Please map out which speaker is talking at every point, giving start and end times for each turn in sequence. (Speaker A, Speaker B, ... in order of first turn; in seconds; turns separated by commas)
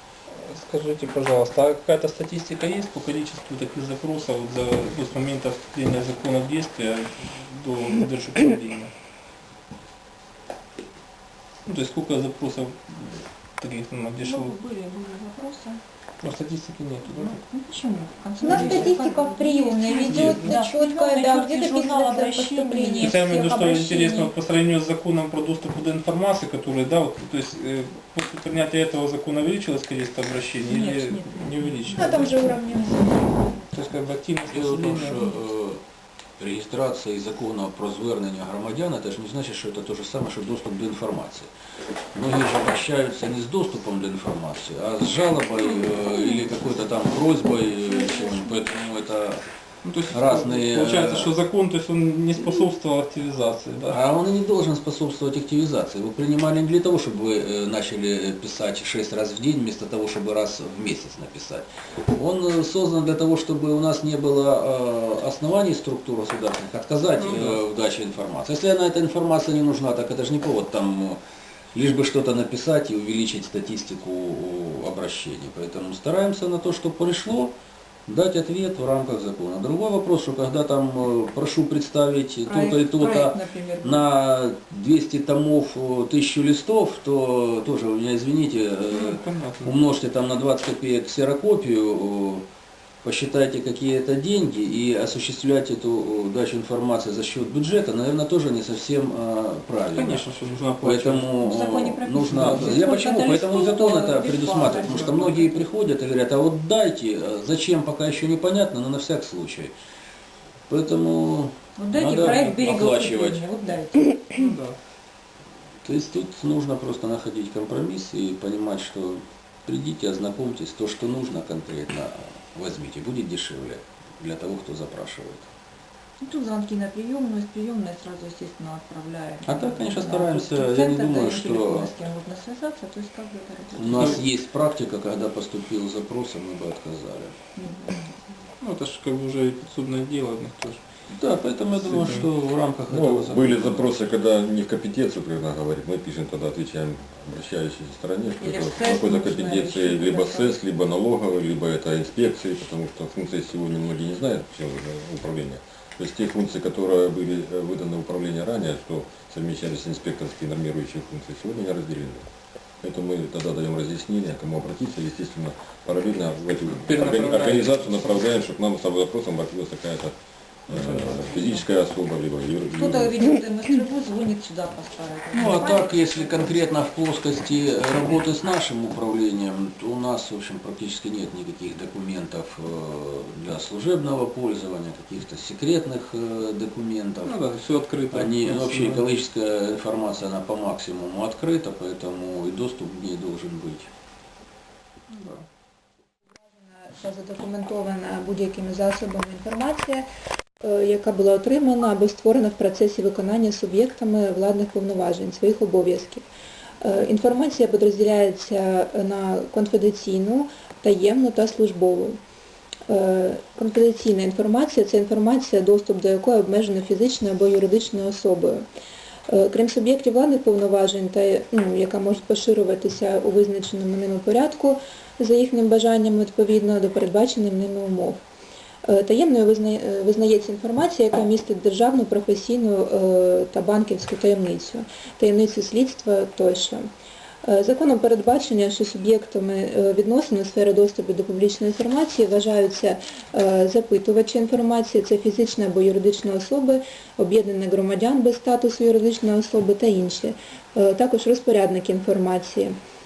Speaker A: 0.3-8.9, Speaker A: 11.7-14.5, Speaker B: 14.2-15.8, Speaker A: 16.2-17.4, Speaker B: 17.0-23.3, Speaker C: 18.4-24.3, Speaker A: 20.1-20.6, Speaker A: 23.0-32.5, Speaker B: 30.6-33.5, Speaker C: 31.9-33.1, Speaker A: 33.7-35.3, Speaker D: 34.5-35.8, Speaker D: 36.4-41.5, Speaker D: 42.1-49.4, Speaker B: 45.8-46.4, Speaker B: 47.9-48.5, Speaker A: 49.8-54.0, Speaker D: 50.1-51.3, Speaker D: 53.9-71.2, Speaker A: 67.2-67.6, Speaker D: 71.7-77.5, Speaker D: 78.0-92.4, Speaker B: 82.4-84.0, Speaker A: 88.9-89.8, Speaker D: 93.0-100.3, Speaker A: 99.9-101.3, Speaker D: 100.8-109.7, Speaker B: 101.4-105.5, Speaker A: 102.3-102.8, Speaker A: 104.9-105.3, Speaker D: 110.7-113.5, Speaker B: 111.8-114.5, Speaker A: 114.3-114.8, Speaker D: 115.8-125.5, Speaker B: 126.2-134.3, Speaker D: 129.4-131.9, Speaker D: 133.8-137.3, Speaker B: 137.6-138.1, Speaker A: 138.6-140.8, Speaker D: 141.1-144.1, Speaker A: 141.8-142.3, Speaker E: 142.9-162.2, Speaker B: 148.4-150.6, Speaker E: 162.8-170.1, Speaker A: 166.7-168.2, Speaker E: 170.7-173.3, Speaker B: 172.7-176.7, Speaker D: 175.3-187.4, Speaker A: 187.2-189.1, Speaker D: 188.1-193.9, Speaker A: 195.1-195.4, Speaker C: 196.3-200.0, Speaker C: 200.6-206.3, Speaker C: 206.8-212.2, Speaker C: 212.9-218.6, Speaker C: 219.3-228.2, Speaker C: 228.8-236.9, Speaker C: 237.4-252.8